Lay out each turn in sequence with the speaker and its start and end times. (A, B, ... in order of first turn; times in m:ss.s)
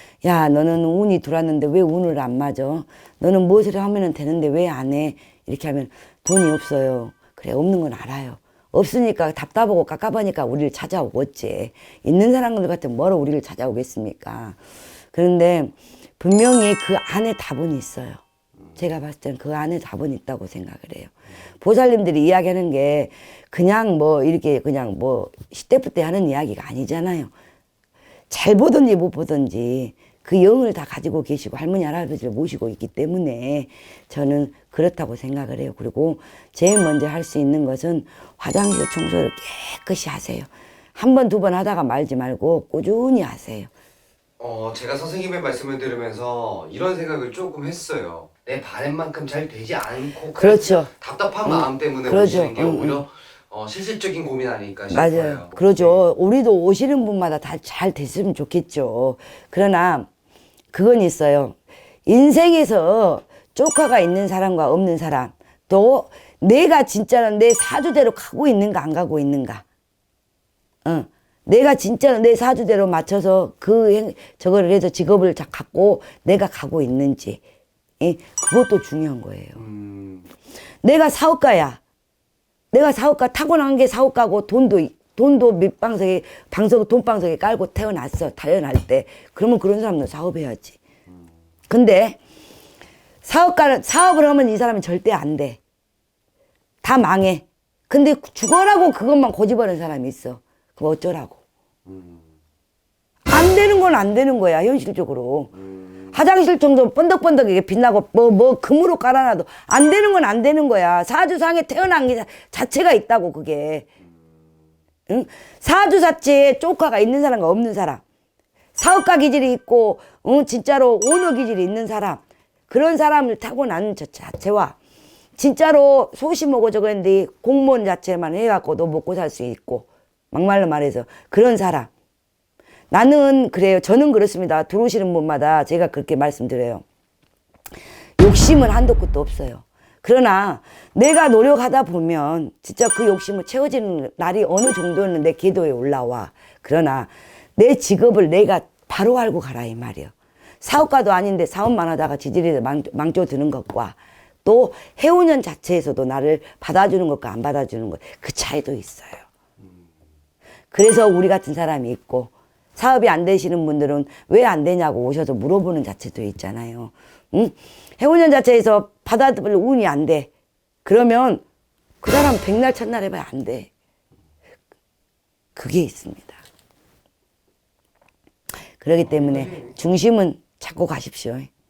0:00.2-0:14.6 A
0:15.1-0:18.2 A
0:18.8-0:27.3 A
0:28.3-0:43.7 A
0:44.4-0:56.0 B
0:50.4-0:50.9 A
0:51.4-0:53.0 A
0:54.9-1:00.1 A
1:00.7-1:09.6 A
1:10.8-1:17.4 A
1:18.0-1:19.6 A
1:19.6-1:20.3 B
1:20.8-1:21.8 A
1:22.7-1:30.8 A
1:31.7-1:32.2 A
1:33.2-1:35.6 A
1:36.8-1:41.4 A
1:41.9-1:42.3 B
1:43.3-1:45.6 A
1:45.6-1:46.1 B
1:46.1-1:53.9 A
1:55.1-1:58.0 A
1:58.8-2:04.8 A
2:05.4-2:11.9 A
2:12.9-2:16.8 A
2:18.2-2:39.3 A
2:40.7-2:50.3 A
2:50.8-2:51.4 A
2:52.0-2:53.7 A
2:55.6-2:56.4 A
2:58.8-3:01.5 A
2:59.0-2:59.7 B